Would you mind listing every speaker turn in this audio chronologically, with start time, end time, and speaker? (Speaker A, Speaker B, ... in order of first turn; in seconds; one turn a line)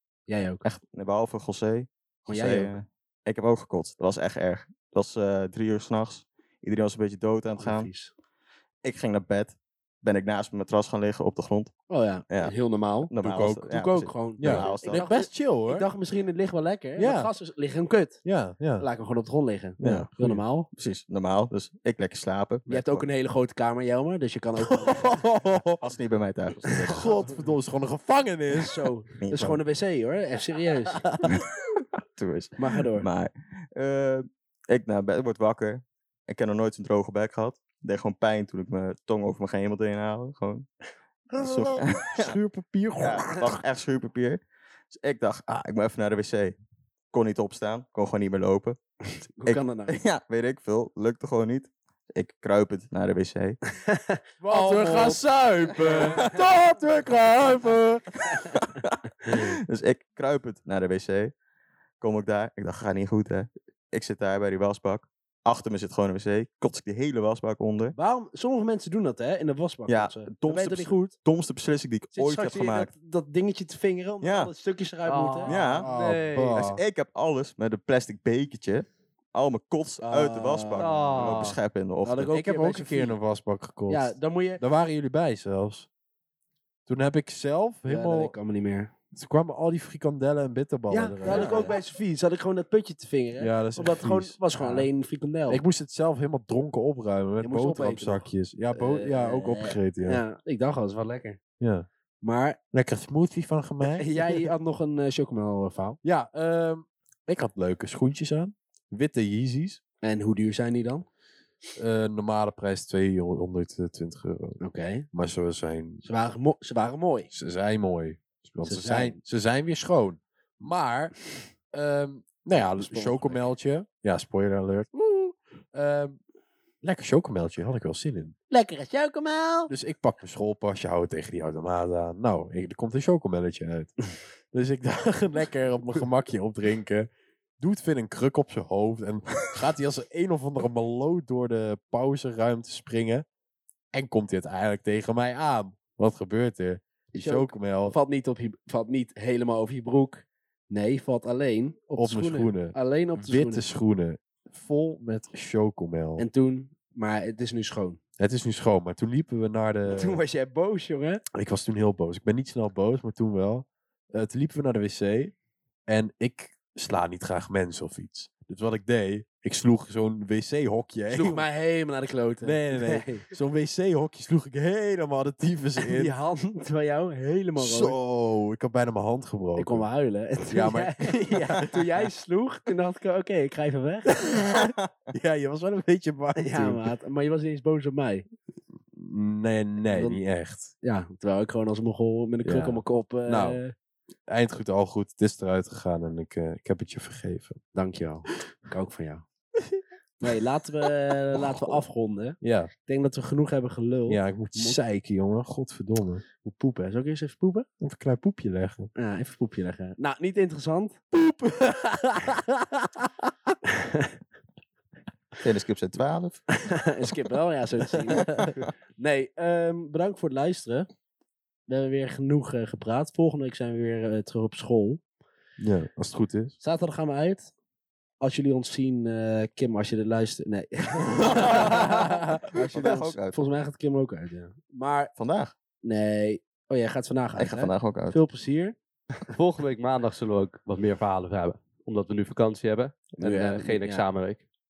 Speaker A: 0.3-0.7
Speaker B: 0.6-7.9
Speaker A: 2.3-2.7
Speaker A: 7.6-8.1
Speaker B: 8.8-11.8
Speaker A: 11.9-18.2
Speaker B: 12.3-15.0
Speaker C: 13.2-13.7
Speaker C: 14.4-15.9
Speaker C: 17.0-17.3
Speaker C: 18.2-18.9
Speaker A: 18.8-20.7
Speaker B: 19.8-20.1
Speaker C: 19.9-20.4
Speaker B: 20.7-23.1
Speaker A: 22.7-25.3
Speaker C: 24.7-25.8
Speaker B: 25.8-27.2
Speaker A: 26.8-27.1
Speaker C: 26.9-28.9
Speaker A: 28.5-31.2
Speaker B: 29.2-29.6
Speaker B: 32.1-40.7
Speaker A: 32.6-33.1
Speaker C: 41.3-43.6
Speaker B: 41.4-42.4
Speaker B: 43.0-46.5
Speaker B: 47.1-48.8
Speaker A: 49.2-50.0
Speaker B: 49.4-53.6
Speaker A: 53.9-56.3
Speaker C: 54.5-58.0
Speaker B: 58.4-61.3
Speaker B: 62.0-68.0
Speaker A: 68.0-71.1
Speaker B: 69.9-72.9
Speaker A: 72.1-75.6
Speaker B: 74.2-74.5
Speaker D: 75.0-76.6
Speaker B: 75.5-75.9
Speaker C: 75.8-76.8
Speaker B: 76.5-82.3
Speaker A: 80.0-83.2
Speaker D: 80.8-81.6
Speaker C: 82.3-85.9
Speaker A: 83.9-84.6
Speaker C: 86.9-88.3
Speaker A: 87.9-88.9
Speaker C: 89.1-91.8
Speaker A: 90.9-95.6
Speaker D: 91.3-91.7
Speaker C: 93.4-94.9
Speaker C: 95.5-100.2
Speaker A: 97.4-101.4
Speaker C: 101.6-101.9
Speaker A: 102.2-102.6
Speaker C: 102.7-104.5
Speaker A: 104.0-106.0
Speaker C: 106.0-109.8
Speaker A: 110.0-111.1
Speaker C: 111.8-114.6
Speaker A: 114.6-115.1
Speaker C: 115.1-116.0
Speaker A: 116.0-117.3
Speaker C: 117.3-121.2
Speaker A: 118.7-119.2
Speaker C: 121.7-126.2
Speaker A: 122.7-123.5
Speaker C: 126.8-128.3
Speaker A: 128.5-129.7
Speaker C: 129.7-133.9
Speaker C: 134.5-143.3
Speaker C: 143.9-148.0
Speaker A: 147.1-153.6
Speaker C: 152.0-152.8
Speaker C: 153.3-156.2
Speaker A: 156.2-158.0
Speaker C: 158.2-160.2
Speaker A: 159.9-161.2
Speaker C: 161.3-165.3
Speaker C: 165.9-171.4
Speaker A: 171.1-173.3
Speaker C: 172.4-176.1
Speaker A: 175.8-178.0
Speaker C: 177.6-179.9
Speaker A: 179.6-184.3
Speaker C: 180.5-182.1
Speaker C: 184.1-186.8
Speaker B: 184.6-184.9
Speaker A: 186.4-188.3
Speaker C: 188.9-190.7
Speaker A: 189.9-190.2
Speaker A: 190.8-193.7
Speaker C: 192.4-193.6
Speaker C: 194.3-197.6
Speaker A: 197.8-199.2
Speaker C: 199.6-200.4
Speaker A: 200.2-204.8
Speaker C: 201.1-201.8
Speaker C: 202.4-202.7
Speaker C: 204.1-206.2
Speaker A: 206.4-207.7
Speaker C: 207.8-208.9
Speaker A: 209.0-211.0
Speaker C: 211.1-213.0
Speaker B: 215.4-216.4
Speaker A: 216.6-220.9
Speaker A: 221.7-225.0
Speaker C: 225.6-226.6
Speaker A: 226.6-227.5
Speaker A: 228.2-235.1
Speaker C: 231.2-231.7
Speaker B: 231.4-231.9
Speaker B: 232.6-233.6
Speaker B: 235.2-235.5
Speaker A: 235.8-238.8
Speaker B: 237.4-238.2
Speaker D: 239.3-244.4
Speaker A: 243.2-244.1